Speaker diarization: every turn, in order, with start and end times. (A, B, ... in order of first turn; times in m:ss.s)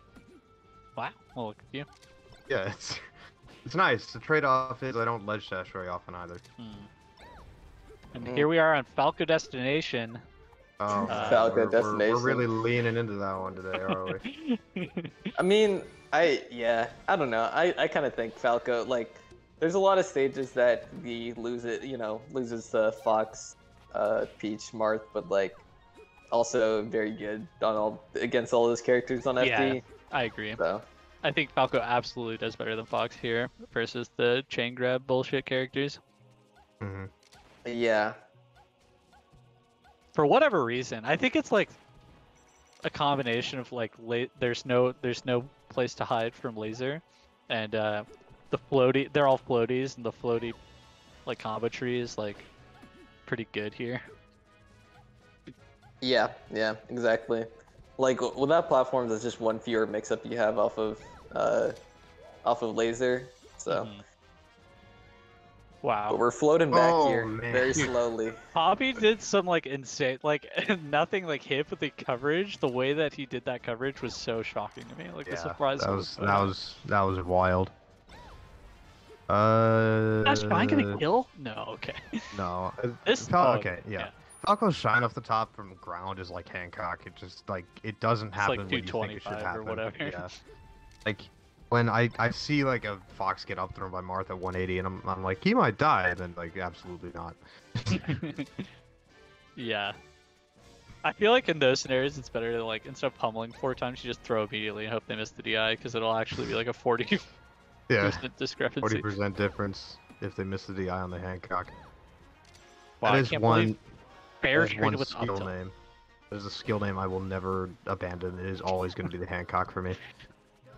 0:01.0-0:01.9 A
0:02.5-0:03.0 B
0:03.6-0:06.4 B
0:06.6-0:06.9 A
0:08.1-0:10.2 A
0:08.2-0:08.5 C
0:10.8-0:14.2 B
0:10.9-0:12.5 C
0:11.1-0:11.5 A
0:14.0-0:15.1 A
0:15.4-0:25.6 C
0:26.3-0:29.8 C
0:29.4-0:30.6 A
0:30.6-0:30.8 C
0:31.2-0:36.0 A
0:36.8-0:37.1 B
0:37.6-0:38.2 C
0:40.2-0:41.8 A
0:42.9-0:50.6 A
0:51.2-0:52.5 A
0:53.3-0:54.0 A
0:56.0-0:57.5 C
0:58.0-1:01.7 C
1:02.4-1:03.9 C
1:03.7-1:04.0 A
1:05.8-1:06.2 A
1:06.1-1:08.4 C
1:06.7-1:07.9 B
1:08.5-1:16.5 A
1:15.3-1:17.7 B
1:19.3-1:21.0 B
1:20.3-1:22.0 A
1:22.3-1:30.3 B
1:23.0-1:24.1 A
1:28.4-1:30.3 A
1:31.0-1:38.2 B
1:38.0-1:38.7 A
1:39.6-1:40.0 A
1:41.0-1:47.2 A
1:47.9-1:48.2 B
1:48.0-1:49.1 A
1:48.8-1:51.7 B
1:53.0-1:53.8 A
1:53.0-1:53.8 B
1:54.4-1:55.5 A
1:54.5-1:55.7 B
1:56.3-2:00.0 B